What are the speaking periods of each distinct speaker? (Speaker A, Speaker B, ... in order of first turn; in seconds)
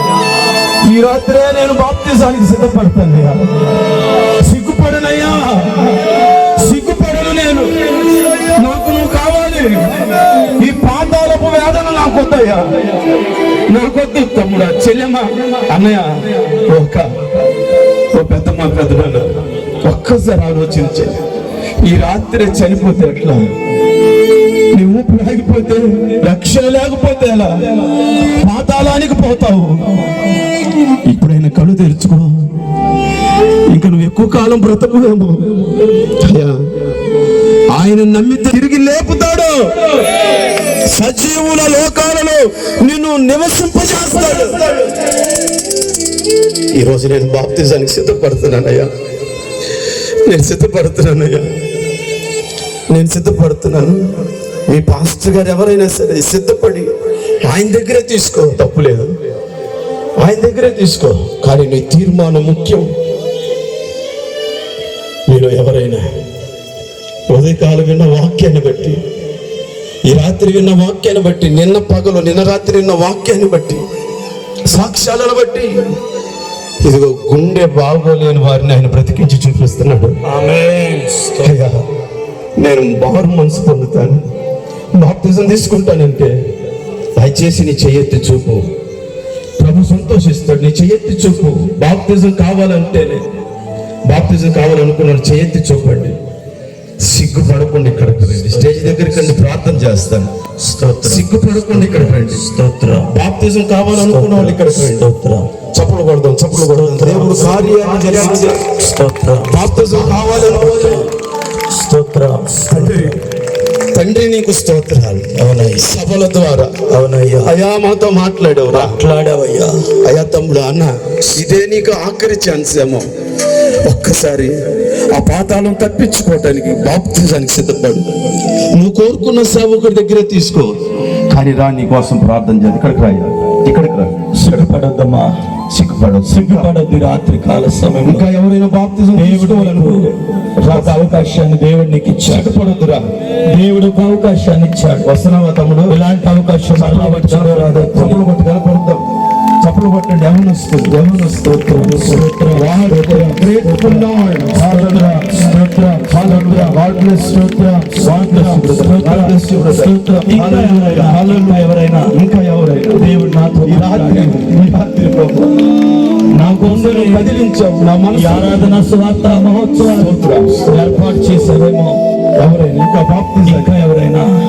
Speaker A: 0.8-3.4, 4.4-7.7, 8.5-12.7, 13.7-17.1, 18.1-19.3, 19.8-21.1, 21.8-23.4, 24.7-27.6, 28.4-29.9, 31.0-32.4, 33.7-36.7, 37.7-39.8, 40.9-44.7, 46.7-48.9, 50.2-51.5, 52.9-54.1, 54.7-56.9, 57.4-59.1, 60.2-62.9, 65.3-66.0, 67.3-69.0, 70.1-73.8, 74.7-75.8, 76.8-80.2, 81.4-81.8, 82.6-84.2, 84.9-86.4, 87.2-88.7, 89.6-93.2, 94.1-96.2, 97.0-100.3, 101.0-102.4, 103.0-105.0, 105.7-108.6, 109.5-111.1, 112.7-113.2, 113.9-116.8, 117.4-119.0, 120.0-123.1, 123.8-124.6, 125.1-130.8, 131.3-134.7, 135.7-136.7, 138.0-141.3, 142.3-143.0, 145.1-146.0, 146.8-149.0, 149.6-155.3, 156.1-163.1, 163.7-165.5, 166.6-168.8, 169.9-170.8, 172.3-173.7
Speaker B: 80.2-81.5, 100.6-103.1, 103.9-105.5, 106.6-111.1, 111.7-113.2, 115.3-116.0, 116.9-117.5, 118.7-119.9, 134.3-135.3, 136.2-138.2, 139.2-142.5, 143.5-145.1, 145.9-148.2, 151.0-156.8, 157.9-162.1, 163.0-164.4, 166.3-167.3, 168.1-172.0, 173.4-174.3